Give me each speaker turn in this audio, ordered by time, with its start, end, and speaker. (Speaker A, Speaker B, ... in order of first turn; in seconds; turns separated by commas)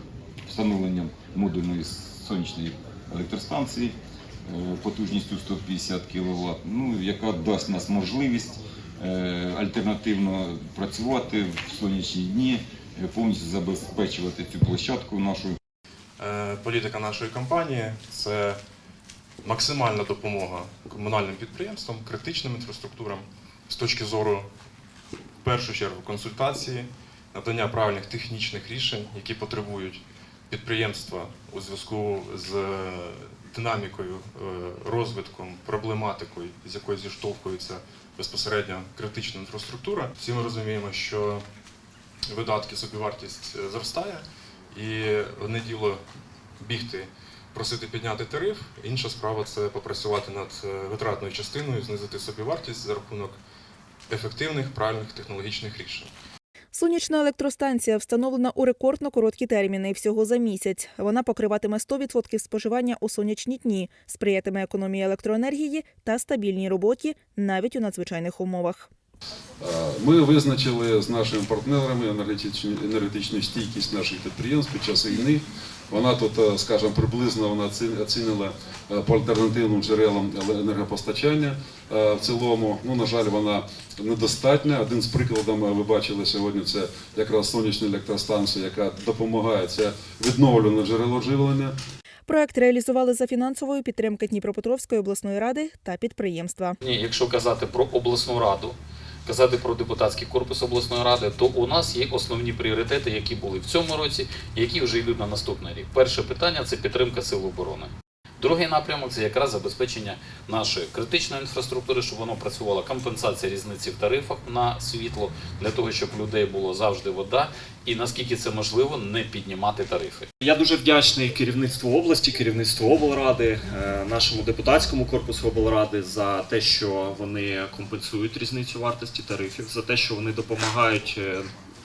Speaker A: 0.5-3.9, Speaker A: 4.5-15.6, Speaker B: 16.2-18.6, Speaker B: 19.4-24.5, Speaker B: 25.4-41.4, Speaker B: 42.3-46.0, Speaker B: 46.6-53.4, Speaker B: 54.1-56.1, Speaker C: 56.7-68.9, Speaker D: 69.6-91.8, Speaker C: 92.3-96.8, Speaker E: 96.8-120.3, Speaker F: 120.4-131.5